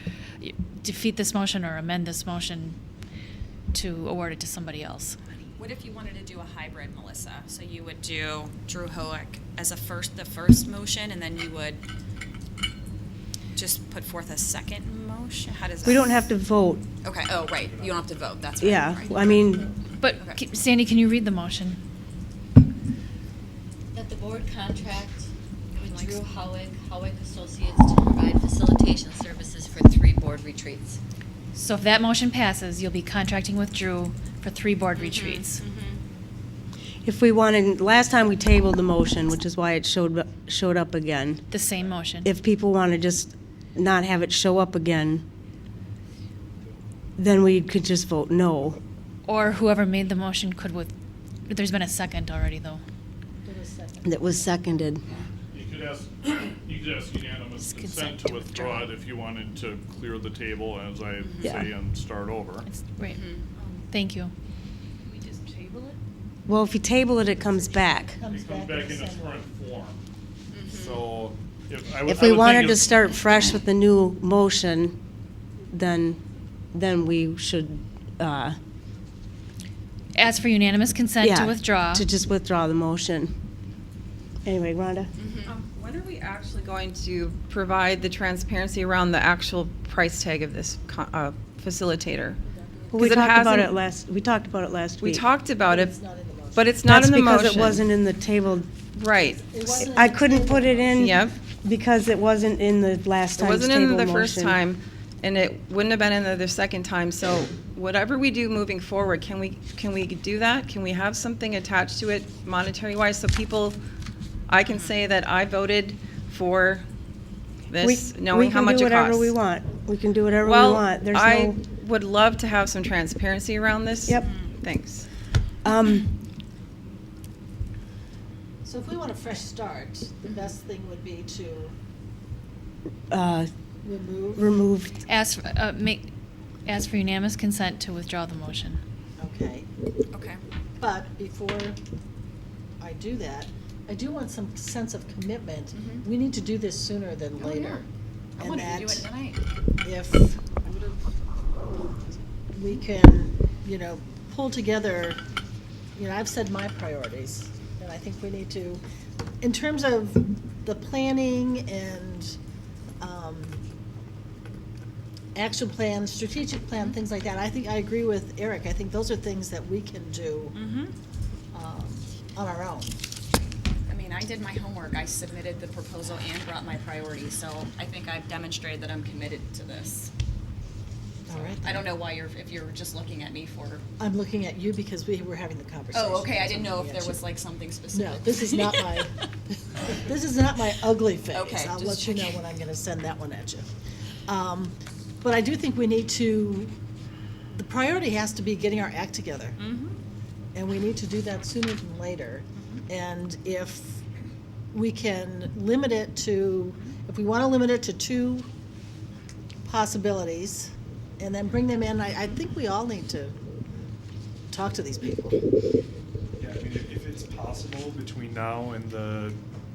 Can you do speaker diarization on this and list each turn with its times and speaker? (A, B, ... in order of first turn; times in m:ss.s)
0:00.4-0:02.8 A
0:03.7-0:05.2 A
0:05.6-0:11.8 B
0:13.6-0:16.1 B
0:15.8-0:16.8 C
0:17.0-0:19.5 B
0:18.6-0:19.7 C
0:20.0-0:21.8 A
0:20.1-0:20.4 B
0:23.9-0:31.0 D
0:25.8-0:26.3 B
0:31.5-0:35.6 A
0:35.0-0:36.0 B
0:37.0-0:41.4 C
0:41.5-0:42.3 A
0:42.2-0:45.2 C
0:47.2-0:48.8 C
0:49.3-0:50.9 A
0:51.4-0:52.8 A
0:53.4-0:54.5 E
0:54.0-0:55.0 C
0:55.5-1:02.7 F
0:57.7-0:58.9 A
1:01.2-1:01.5 B
1:02.7-1:03.2 A
1:03.0-1:03.4 B
1:03.9-1:04.3 A
1:06.5-1:08.2 C
1:07.4-1:09.4 E
1:08.2-1:10.0 F
1:10.5-1:11.0 B
1:10.6-1:13.1 F
1:12.0-1:15.0 C
1:15.7-1:16.2 C
1:16.7-1:18.6 C
1:20.2-1:22.1 A
1:21.2-1:23.3 C
1:24.4-1:25.1 C
1:25.2-1:25.5 B
1:25.4-1:32.4 G
1:32.8-1:33.3 E
1:32.9-1:33.8 G
1:32.9-1:35.3 C
1:35.0-1:36.0 G
1:35.6-1:36.9 E
1:36.6-1:37.8 G
1:36.8-1:38.7 C
1:38.9-1:39.5 G
1:39.3-1:41.2 E
1:39.7-1:44.6 C
1:40.9-1:41.3 G
1:43.3-1:53.8 G
1:54.5-1:56.8 G
1:54.7-1:54.9 B
1:57.7-1:59.3 G
1:57.8-2:01.6 C
2:00.4-2:05.0 G
2:04.2-2:04.5 B
2:05.6-2:06.1 C
2:08.6-2:11.7 E
2:13.1-2:13.5 C
2:13.8-2:14.5 E
2:14.4-2:14.9 C
2:15.1-2:16.1 A
2:16.7-2:18.8 A
2:19.2-2:19.7 E
2:20.1-2:20.4 B
2:20.8-2:21.8 E
2:22.8-2:27.9 E
2:25.7-2:26.0 B
2:27.4-2:27.8 B
2:28.4-2:29.1 E
2:28.4-2:29.4 B
2:29.8-2:31.0 E
2:32.5-2:35.2 E
2:36.0-2:38.8 E
2:39.4-2:42.4 E
2:43.0-2:43.6 E
2:45.3-2:50.6 E
2:50.5-2:50.9 B
2:51.5-2:53.0 E
2:53.9-3:00.1 B
3:01.3-3:02.0 E
3:01.3-3:03.8 B
3:04.0-3:07.3 E
3:05.9-3:09.1 B
3:07.9-3:13.7 E
3:11.3-3:12.4 B
3:14.2-3:16.7 E
3:17.5-3:19.6 E
3:19.6-3:20.0 B
3:20.5-3:24.0 E
3:24.7-3:28.5 E
3:29.6-3:33.4 E
3:34.5-3:35.4 E
3:36.4-3:39.4 H